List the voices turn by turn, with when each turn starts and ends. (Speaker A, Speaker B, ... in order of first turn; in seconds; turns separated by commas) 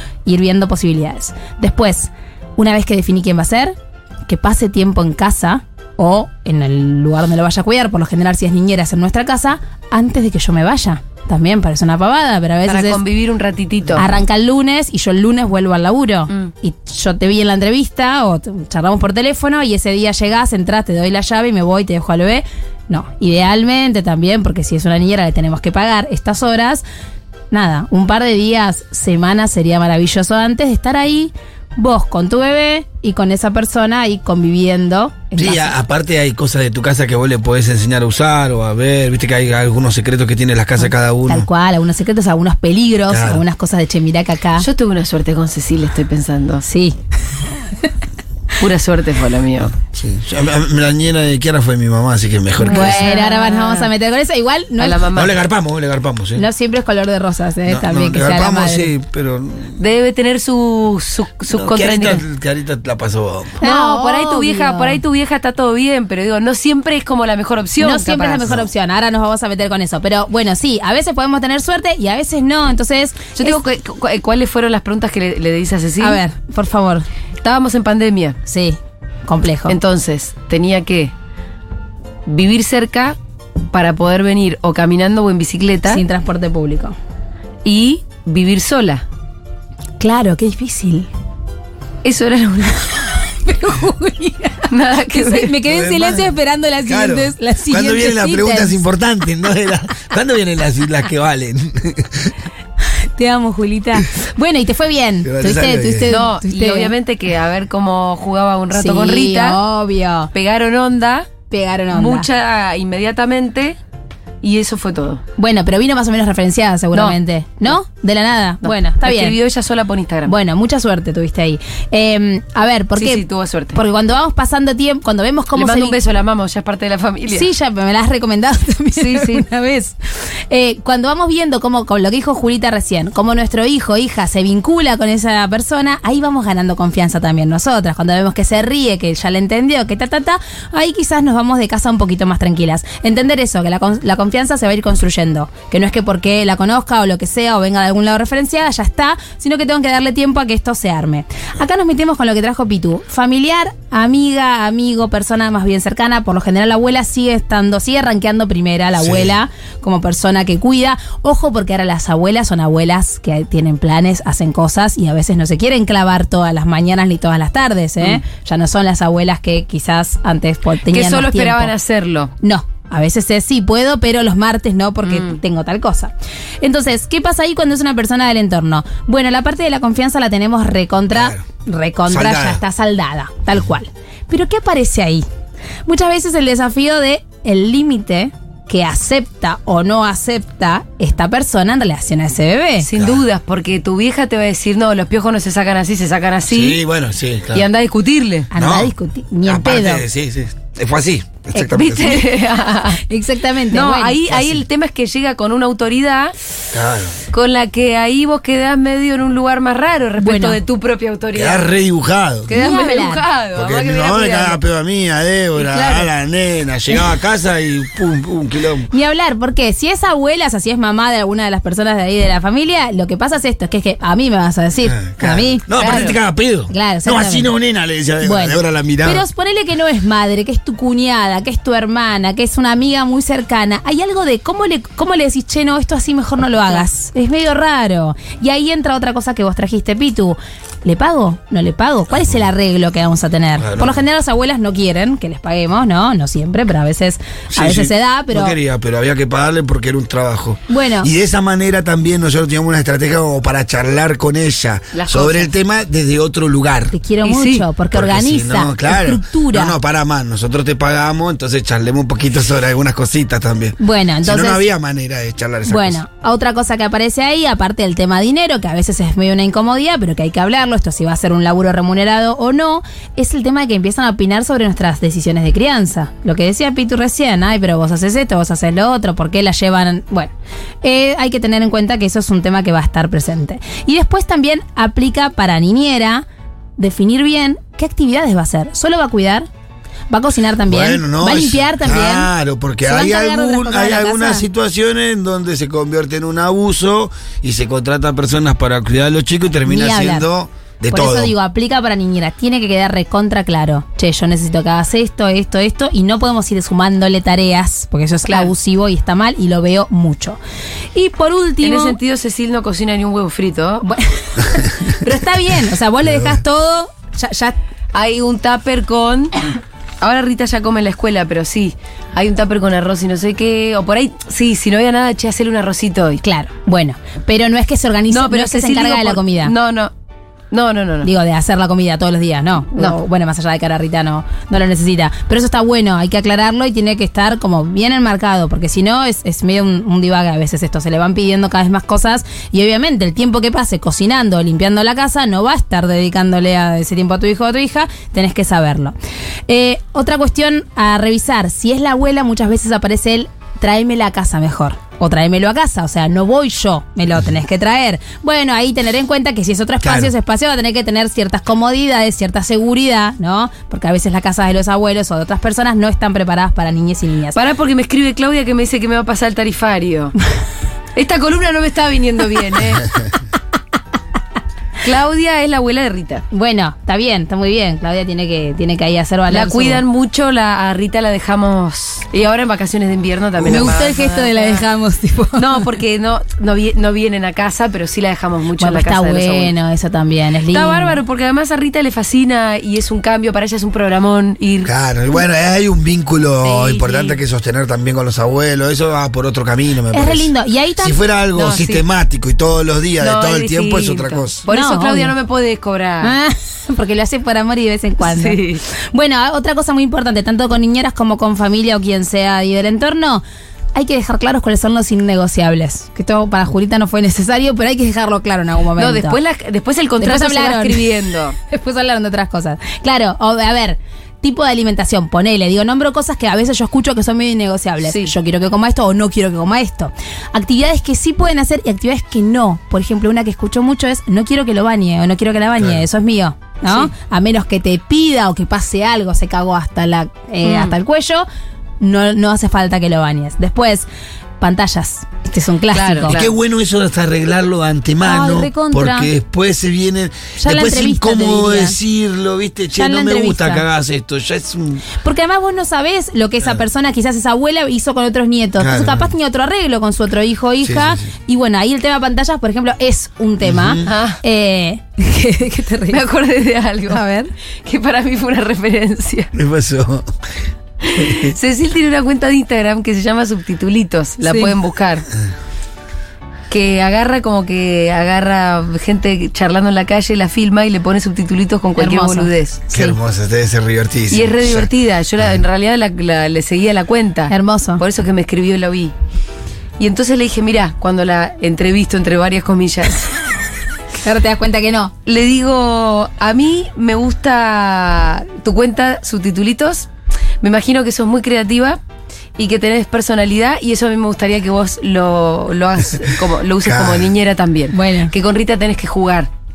Speaker A: 0.3-3.8, Speaker A: 4.3-13.0, Speaker B: 12.6-14.1, Speaker A: 14.0-26.9, Speaker A: 27.5-35.8, Speaker C: 35.4-41.5, Speaker A: 40.8-44.7, Speaker C: 43.1-43.4, Speaker B: 44.6-46.6, Speaker A: 46.6-47.0, Speaker B: 48.6-49.7, Speaker C: 49.9-53.1, Speaker B: 52.6-53.9, Speaker A: 52.6-55.0, Speaker B: 54.8-55.4, Speaker C: 55.1-56.4, Speaker A: 56.4-58.9, Speaker C: 57.7-59.8, Speaker B: 59.8-62.2, Speaker C: 61.5-63.6, Speaker A: 63.6-65.0, Speaker B: 63.6-68.6, Speaker A: 67.8-73.6, Speaker B: 73.4-76.2, Speaker A: 76.0-77.1, Speaker B: 77.4-78.4, Speaker A: 78.5-79.8, Speaker B: 79.7-81.1, Speaker B: 82.3-83.2, Speaker B: 83.7-86.0, Speaker A: 85.9-87.0, Speaker B: 87.7-89.0, Speaker A: 90.0-91.1, Speaker B: 92.0-92.8, Speaker A: 93.1-98.8, Speaker B: 94.7-95.5, Speaker C: 95.7-102.3, Speaker A: 103.2-106.9, Speaker C: 105.2-106.2, Speaker B: 106.1-109.6, Speaker A: 108.7-110.3, Speaker B: 110.3-111.3, Speaker A: 111.5-112.3, Speaker B: 111.9-113.8, Speaker B: 114.4-115.2, Speaker A: 115.4-119.4, Speaker B: 118.6-120.3, Speaker A: 120.2-126.0, Speaker B: 123.0-123.8, Speaker B: 125.5-127.5, Speaker A: 127.3-171.7, Speaker B: 129.0-129.5, Speaker C: 159.0-159.3, Speaker B: 170.9-172.3, Speaker A: 172.4-185.2, Speaker B: 175.0-175.4, Speaker C: 181.1-181.4, Speaker C: 182.1-182.6, Speaker A: 185.9-192.9, Speaker B: 192.8-196.8, Speaker C: 196.5-197.7, Speaker B: 197.5-198.5, Speaker A: 198.5-200.1, Speaker C: 198.6-202.3, Speaker B: 201.6-203.0, Speaker A: 203.1-204.2, Speaker B: 203.7-206.3, Speaker C: 204.3-204.6, Speaker C: 206.7-207.2, Speaker B: 207.3-211.7, Speaker A: 210.2-210.6, Speaker C: 211.3-212.6, Speaker B: 212.5-214.6, Speaker A: 212.5-213.2, Speaker C: 213.6-218.9, Speaker B: 215.6-216.1, Speaker A: 218.9-225.7, Speaker C: 224.9-229.2, Speaker B: 225.8-226.2, Speaker A: 226.7-227.5, Speaker A: 228.2-248.6, Speaker C: 243.6-244.0, Speaker C: 247.5-257.0, Speaker A: 250.7-251.1, Speaker B: 254.9-255.5, Speaker A: 256.9-259.8, Speaker B: 257.2-257.7, Speaker C: 257.9-266.0, Speaker A: 263.8-264.7, Speaker A: 265.7-286.2, Speaker A: 286.8-289.5, Speaker A: 290.1-292.3, Speaker C: 290.7-301.3, Speaker A: 292.9-294.4, Speaker A: 299.7-300.3, Speaker A: 300.9-310.4, Speaker B: 308.3-308.5, Speaker A: 310.9-312.0, Speaker B: 311.6-313.9, Speaker A: 313.8-317.6, Speaker B: 317.9-319.4, Speaker B: 320.0-326.2, Speaker A: 326.2-329.5, Speaker B: 328.1-329.9, Speaker B: 330.5-331.1, Speaker A: 331.0-348.9, Speaker A: 349.5-367.4, Speaker C: 359.8-360.1, Speaker B: 367.4-370.1, Speaker B: 370.9-373.0, Speaker B: 374.8-376.3, Speaker A: 376.3-379.8, Speaker B: 379.3-384.7, Speaker A: 383.4-385.7, Speaker B: 385.4-389.6, Speaker A: 388.6-391.0, Speaker B: 390.5-394.7, Speaker C: 394.6-404.4, Speaker B: 396.4-397.2, Speaker A: 399.9-401.0, Speaker B: 401.4-401.8, Speaker B: 403.0-406.2, Speaker A: 404.5-405.1, Speaker A: 406.0-419.2, Speaker B: 408.0-408.6, Speaker B: 418.8-421.4, Speaker A: 420.0-420.9, Speaker A: 421.5-441.3, Speaker B: 427.8-428.1, Speaker B: 436.7-436.9, Speaker B: 440.4-440.8, Speaker A: 441.8-443.9, Speaker A: 444.4-446.2, Speaker B: 445.7-446.4, Speaker C: 446.1-454.9, Speaker A: 448.0-449.1, Speaker A: 450.4-451.8, Speaker A: 452.8-453.6, Speaker A: 455.0-466.1, Speaker C: 458.6-459.1, Speaker C: 460.6-461.0, Speaker C: 463.4-463.9, Speaker B: 463.8-464.2, Speaker B: 465.9-467.0, Speaker A: 466.9-467.3, Speaker B: 467.7-469.3, Speaker C: 469.3-470.1, Speaker B: 470.9-475.1, Speaker C: 471.0-471.3, Speaker A: 474.2-474.6, Speaker B: 476.5-482.8, Speaker A: 481.8-482.9, Speaker C: 482.7-484.7, Speaker B: 484.1-488.9, Speaker A: 487.3-487.8, Speaker B: 489.8-493.1, Speaker A: 494.0-494.9, Speaker B: 495.1-499.9, Speaker B: 500.4-501.8, Speaker B: 502.4-509.3, Speaker C: 506.6-507.1, Speaker A: 507.7-508.1